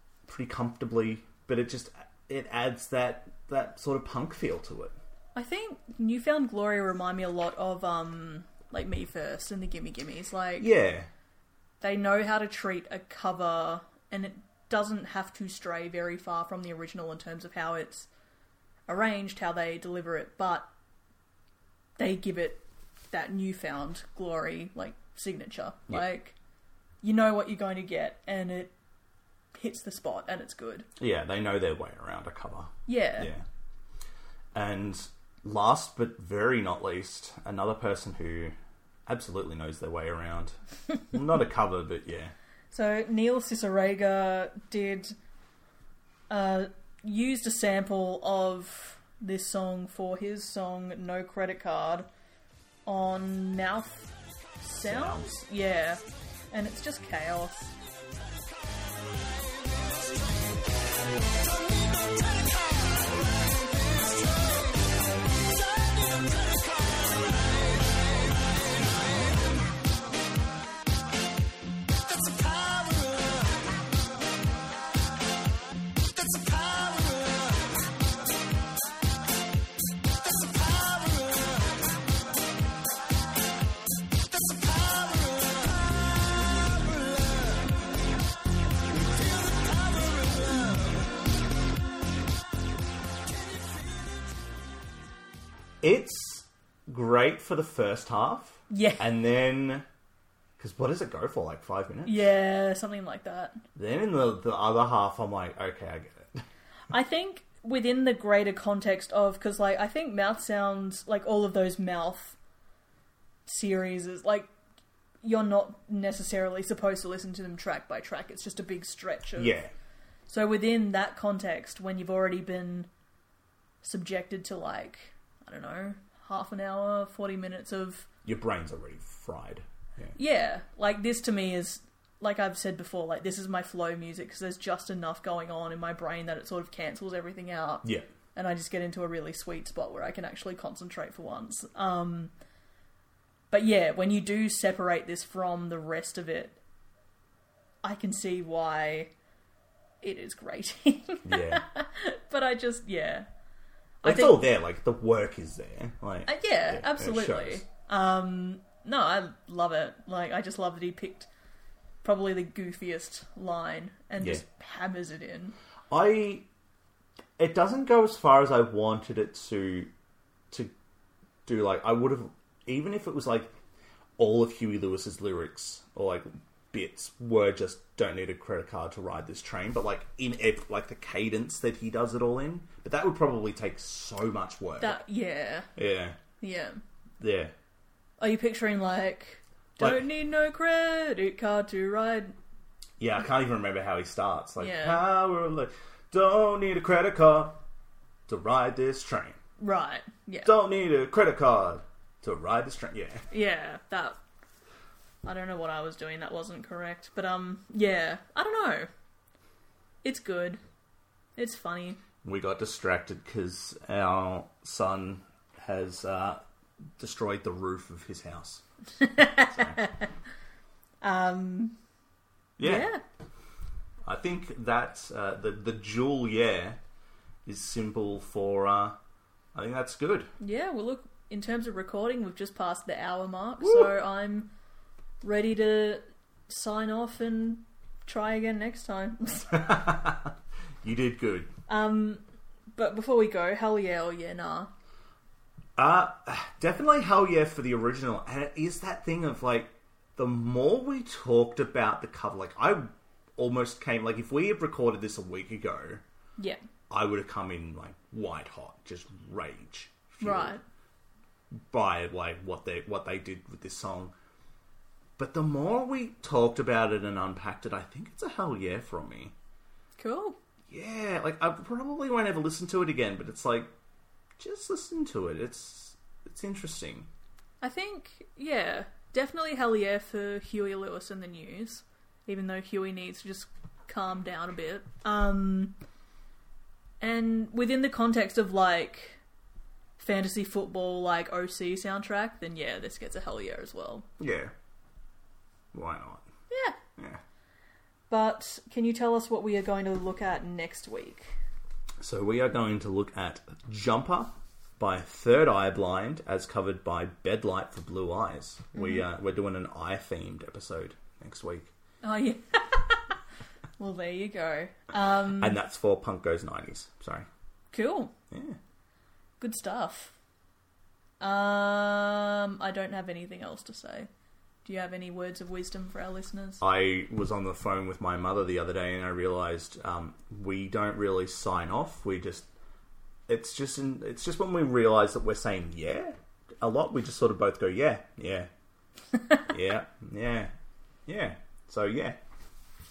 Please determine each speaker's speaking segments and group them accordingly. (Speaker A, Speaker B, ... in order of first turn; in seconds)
Speaker A: 0.3-4.9, 10.6-11.1, 31.0-33.4, 34.5-38.5, 39.1-40.5, 41.1-42.3, 54.8-55.4, 95.8-99.9, 100.6-102.3, 103.7-106.4, 119.4-119.7, 128.2-130.2, 137.8-138.1, 151.2-151.6, 154.0-157.7, 165.9-166.4, 167.4-169.9, 171.4-173.6, 174.2-185.0, 185.8-186.2, 187.2-187.5, 189.8-190.1, 193.0-197.6, 198.3-199.4, 200.4-203.2, 212.2-216.4, 217.0-218.6, 222.6-222.9, 224.0-226.8, 227.4-229.0, 229.5-230.3, 233.6-233.9, 239.5-241.5, 245.8-256.0, 256.9-260.6, 261.7-264.1, 265.2-269.3, 270.7-273.7, 274.4-277.1, 294.2-294.5, 295.7-296.2, 297.0-297.2, 302.0-311.7, 315.3-317.3, 318.3-318.6, 326.6-332.5, 333.3-338.5, 339.5-340.5, 341.1-342.2
Speaker B: 5.3-10.7, 11.8-18.1, 18.9-20.7, 22.0-26.3, 27.0-28.7, 29.6-30.9, 32.9-33.3, 42.7-45.1, 46.3-52.1, 52.9-56.0, 56.5-57.7, 98.7-99.1, 102.0-103.6, 106.9-112.4, 113.5-114.5, 115.2-119.6, 120.3-122.9, 123.8-128.1, 130.2-142.3, 143.5-146.6, 147.8-149.1, 150.0-153.3, 154.0-154.4, 156.3-161.3, 162.0-165.6, 184.8-185.7, 186.4-186.8, 188.2-192.3, 194.6-195.0, 199.6-200.5, 203.3-204.2, 205.2-208.9, 210.0-210.6, 211.4-212.0, 219.0-220.1, 221.0-221.8, 222.6-223.0, 230.4-234.5, 235.2-239.9, 241.7-242.2, 242.7-244.7, 260.2-260.6, 270.0-270.4, 277.6-285.8, 287.0-289.2, 290.0-294.1, 296.5-296.8, 298.1-301.4, 308.7-309.0, 312.0-313.1, 313.8-315.6, 317.7-318.1, 319.4-320.1, 321.2-324.1, 324.6-326.6
Speaker C: 59.3-69.6, 72.0-73.8, 76.1-77.9, 80.2-82.0, 84.2-87.9, 88.8-91.2, 93.3-94.2